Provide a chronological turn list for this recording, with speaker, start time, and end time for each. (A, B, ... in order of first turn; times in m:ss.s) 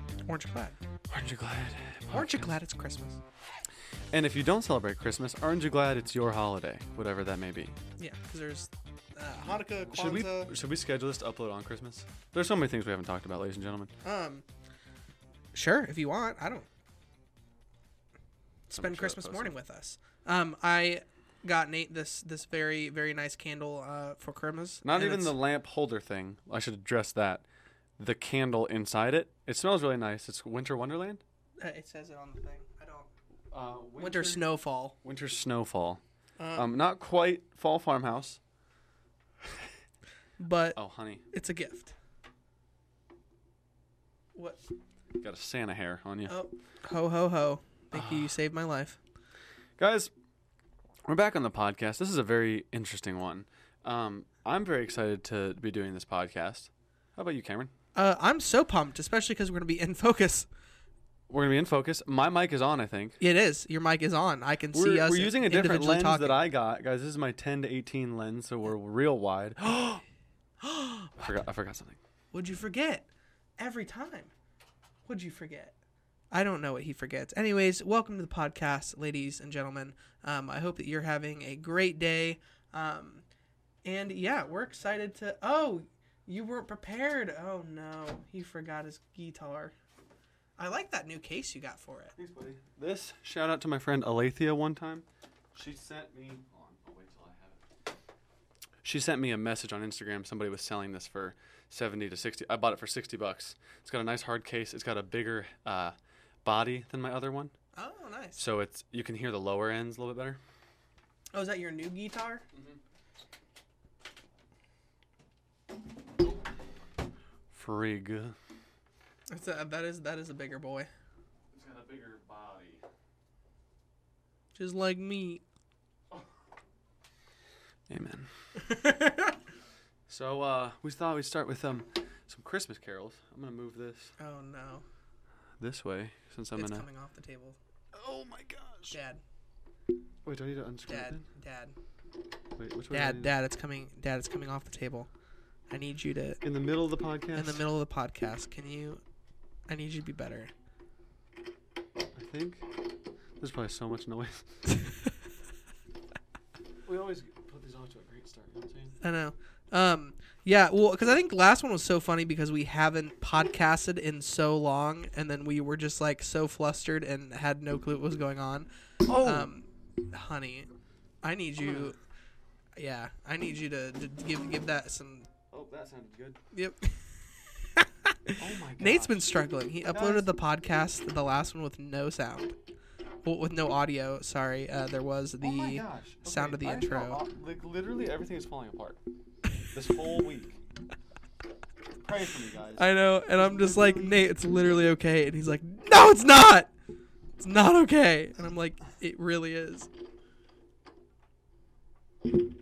0:00.3-0:00.8 A
0:01.1-0:02.6 B
0:02.1-0:03.2 A
0:04.1-0:07.8 B
0:08.0-0:10.5 A
0:09.9-0:13.9 B
0:14.0-0:14.4 A
0:15.5-0:16.7 A
0:18.7-0:25.4 A
0:18.7-0:19.6 B
0:24.8-0:27.4 B
0:28.0-0:31.2 B
0:31.6-0:33.1 A
0:33.5-0:34.5 B
0:34.0-0:35.0 A
0:35.0-0:36.0 B
0:36.4-0:36.7 A
0:36.6-0:38.4 B
0:40.4-0:40.8 A
0:40.8-0:41.2 B
0:41.3-0:41.9 A
0:44.4-0:44.6 A
0:45.2-0:46.3 B
0:46.3-0:49.0 A
0:47.9-0:48.4 B
0:49.8-0:50.1 B
0:51.1-0:57.7 B
0:58.0-1:00.5 A
1:01.3-1:03.2 B
1:03.2-1:06.4 A
1:04.7-1:10.0 B
1:10.6-1:11.3 A
1:11.2-1:12.0 B
1:12.3-1:14.3 A
1:15.1-1:15.8 A
1:16.3-1:23.2 A
1:23.8-1:29.7 A
1:30.6-1:32.2 A
1:32.2-1:37.6 B
1:38.8-1:47.5 B
1:47.8-1:48.4 A
1:48.4-1:50.4 B
1:51.3-1:52.4 A
1:52.5-1:52.8 B
1:57.5-1:58.4 B
1:59.3-2:00.9 A
2:01.5-2:02.8 B
2:04.6-2:05.4 A
2:07.9-2:08.3 B
2:08.6-2:09.4 A
2:10.1-2:14.1 B
2:14.2-2:14.8 A
2:15.6-2:16.9 B
2:16.6-2:17.6 A
2:17.9-2:19.0 B
2:18.9-2:19.2 A
2:20.2-2:21.2 B
2:20.9-2:21.8 A
2:22.6-2:23.3 B
2:22.9-2:25.1 A
2:25.7-2:26.4 A
2:26.4-2:27.7 B
2:27.3-2:29.0 A
2:29.7-2:30.5 A
2:32.2-2:32.7 B
2:33.4-2:34.6 B
2:36.8-2:39.0 B
2:39.0-2:48.7 A
2:49.1-2:49.5 B
2:49.2-2:50.7 A
2:51.2-2:52.0 A
2:51.6-2:51.9 B
2:52.8-2:55.3 A
2:55.5-2:56.4 B
2:56.5-3:02.6 A
2:58.4-2:59.2 B
2:59.9-3:00.3 B
3:03.2-3:07.2 A
3:05.4-3:09.0 B
3:09.7-3:10.6 B
3:12.0-3:14.4 B
3:12.8-3:16.7 A
3:17.4-3:19.9 A